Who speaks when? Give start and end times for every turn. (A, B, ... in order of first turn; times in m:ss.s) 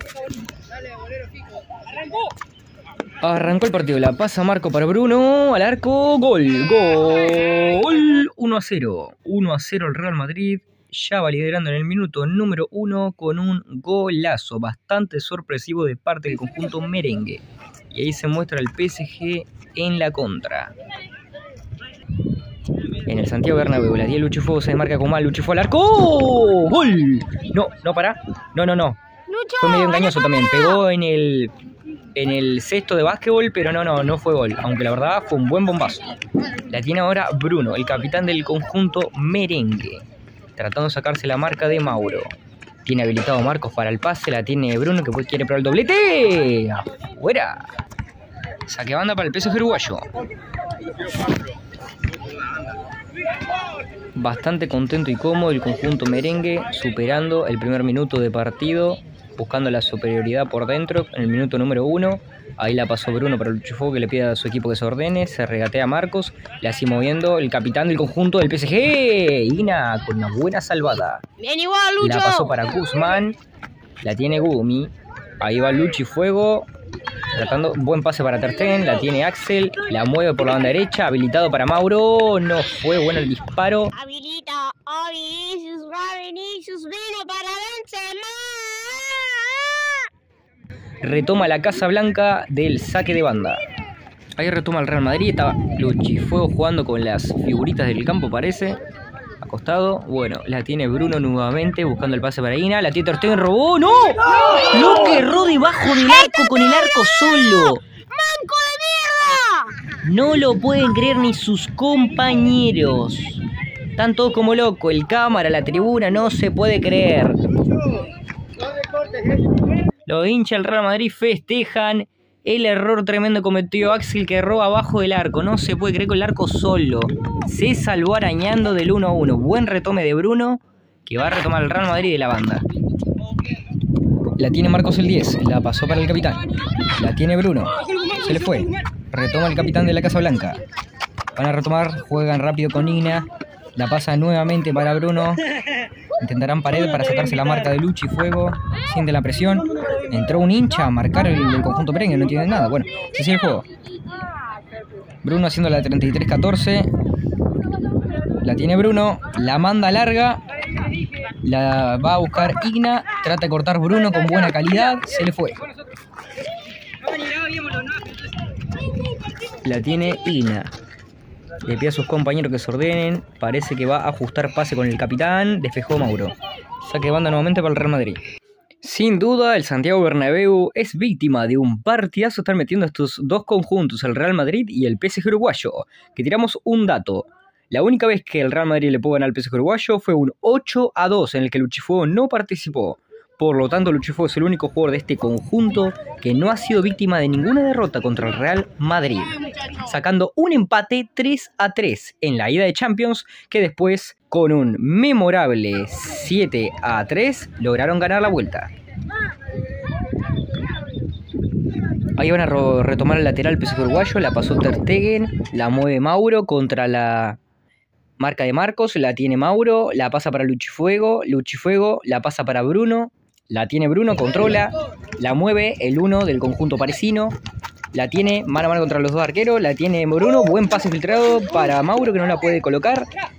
0:03.2-0:20.7 A
0:23.0-0:29.0 A
0:29.3-0:30.8 B
0:29.6-0:31.5 A
0:32.1-0:36.1 A
0:36.7-0:40.0 A
0:40.6-0:42.3 A
0:42.8-0:47.6 A
0:48.7-0:50.0 A
0:54.2-1:11.2 A
1:11.4-1:12.6 B
1:12.0-1:13.4 A
1:14.0-1:16.7 A
1:17.3-1:23.9 A
1:23.9-1:30.1 B
1:31.0-1:33.6 A
1:34.4-1:38.8 A
1:39.4-1:47.8 A
1:46.2-1:47.0 B
1:48.1-1:49.7 B
1:50.0-1:53.4 A
1:54.0-1:57.4 A
2:00.0-2:12.6 A
2:14.4-2:16.4 A
2:17.0-2:20.6 A
2:21.4-2:25.4 A
2:26.2-2:33.6 A
2:35.2-2:36.9 A
2:38.4-2:40.4 A
2:41.4-2:45.6 A
2:49.6-2:50.7 A
2:51.6-2:58.2 A
2:58.8-3:28.7 A
3:32.2-3:37.4 A
3:38.2-3:47.4 A
3:47.9-3:53.1 A